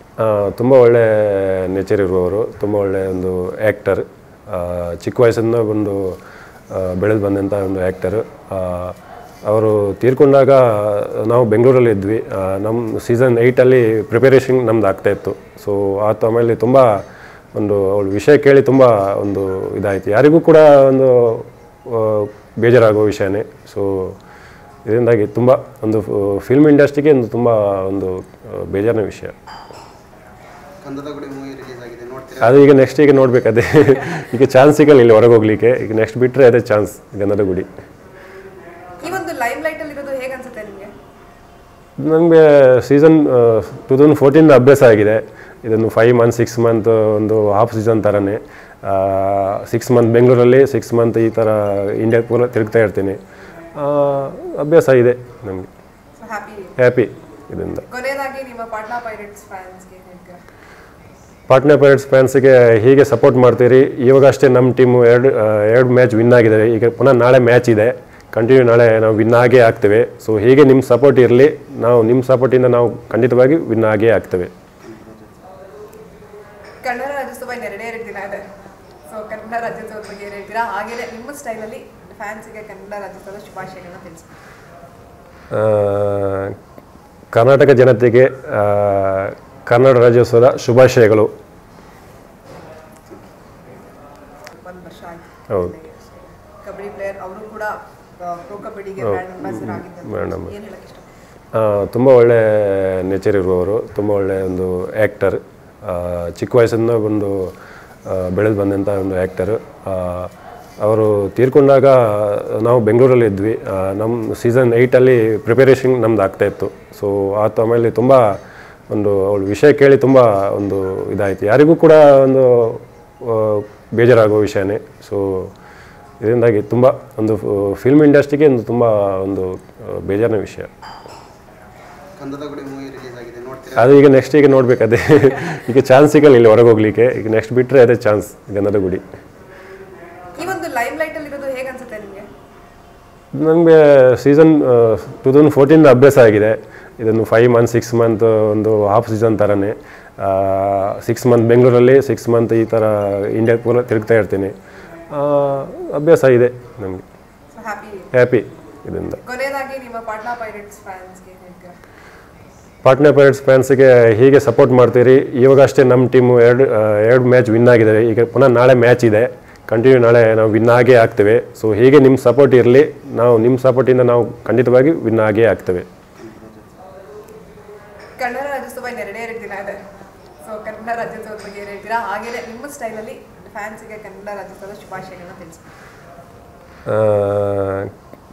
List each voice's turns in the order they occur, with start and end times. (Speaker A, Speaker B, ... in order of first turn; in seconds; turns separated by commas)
Speaker A: 0.2-6.2, Speaker A: 6.7-24.2, Speaker A: 24.8-29.3, Speaker B: 30.8-32.7, Speaker A: 32.4-37.7, Speaker C: 39.0-40.9, Speaker A: 42.0-53.2, Speaker A: 53.7-55.7, Speaker C: 56.2-56.8, Speaker A: 56.8-57.9, Speaker C: 57.9-60.4, Speaker A: 61.5-74.5, Speaker B: 74.8-75.3, Speaker C: 76.8-78.4, Speaker C: 79.1-84.4, Speaker A: 85.5-86.6, Speaker A: 87.3-91.3, Speaker C: 94.5-101.1, Speaker A: 99.0-100.5, Speaker A: 101.5-107.5, Speaker A: 108.0-125.5, Speaker A: 126.2-130.7, Speaker B: 132.2-134.0, Speaker A: 133.8-139.0, Speaker C: 140.3-142.3, Speaker A: 143.3-154.6, Speaker A: 155.1-157.0, Speaker C: 157.5-158.1, Speaker A: 158.1-159.2, Speaker C: 159.2-161.7, Speaker A: 162.8-175.9, Speaker B: 176.2-176.7, Speaker C: 178.2-179.8, Speaker C: 180.4-185.7, Speaker A: 186.9-187.9